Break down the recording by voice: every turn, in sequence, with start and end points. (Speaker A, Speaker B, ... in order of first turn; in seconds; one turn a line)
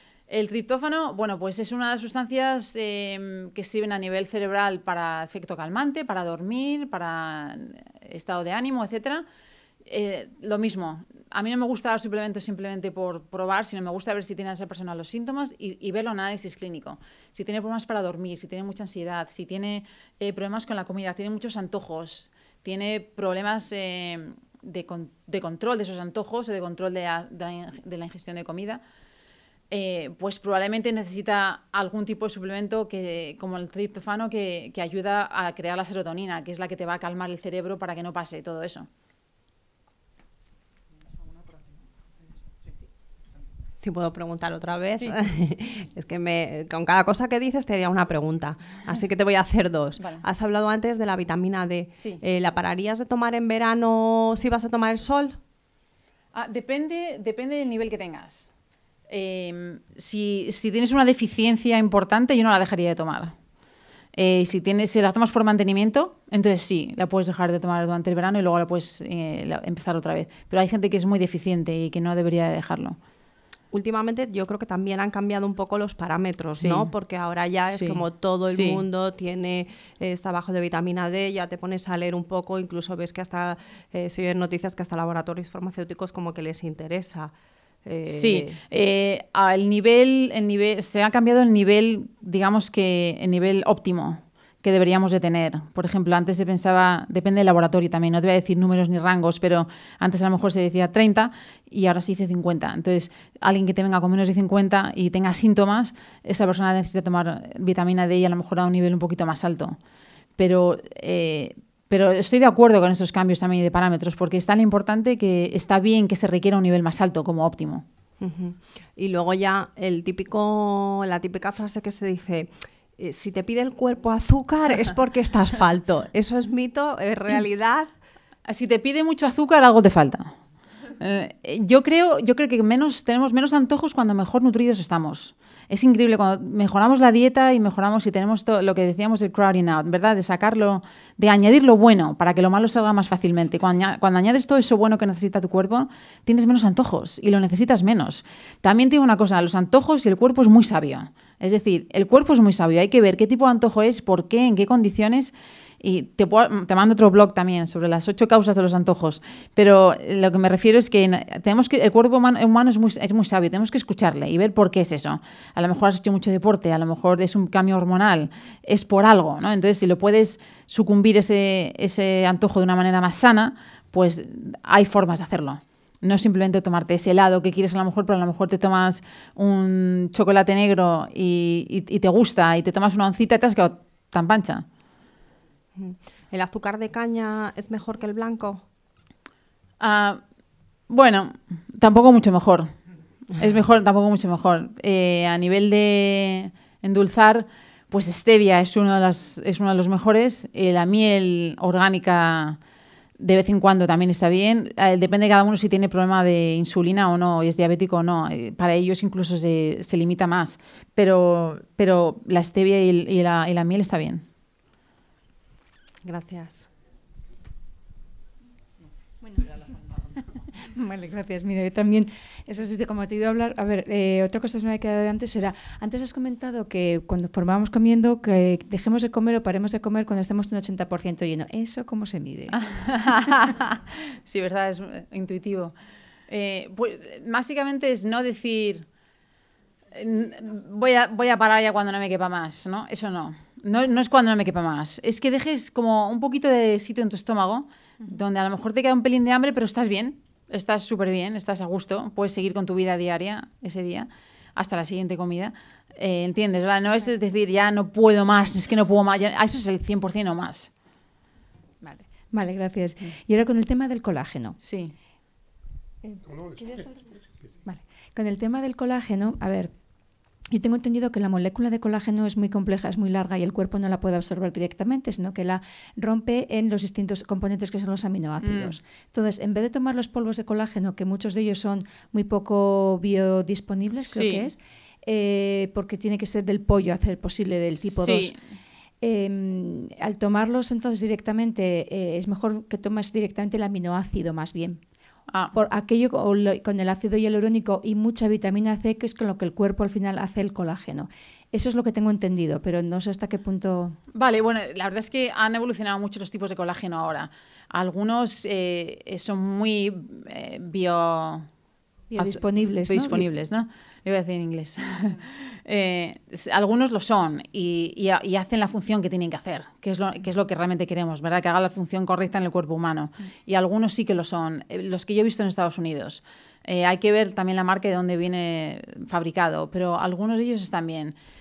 Speaker A: 0.3-9.2
Speaker A: 9.8-28.8
Speaker A: 29.7-38.9
Speaker B: 43.8-55.4
Speaker A: 50.0-50.2
Speaker A: 56.3-58.5
Speaker A: 59.1-63.3
Speaker A: 64.2-73.0
Speaker B: 73.7-87.3
Speaker A: 76.5-76.9
Speaker A: 77.7-78.8
Speaker B: 87.8-88.6
Speaker A: 88.1-109.8
Speaker A: 110.4-117.8
Speaker B: 118.2-127.9
Speaker A: 128.4-130.4
Speaker A: 131.0-184.7
Speaker B: 185.8-188.7
Speaker A: 189.8-190.2
Speaker A: 190.9-192.8
Speaker A: 193.3-202.6
Speaker A: 203.2-214.2
Speaker B: 216.0-216.7
Speaker C: 220.6-232.6
Speaker A: 232.5-235.7
Speaker A: 236.3-238.8
Speaker A: 239.9-260.7
Speaker C: 261.8-264.6
Speaker A: 264.6-264.9
Speaker C: 266.0-269.7
Speaker C: 270.4-288.4
Speaker A: 278.4-278.8
Speaker A: 284.1-284.5
Speaker A: 287.8-288.4
Speaker C: 289.0-294.8
Speaker A: 295.3-295.5
Speaker C: 295.5-304.0
Speaker A: 304.1-311.5
Speaker C: 312.1-313.3
Speaker A: 312.2-331.1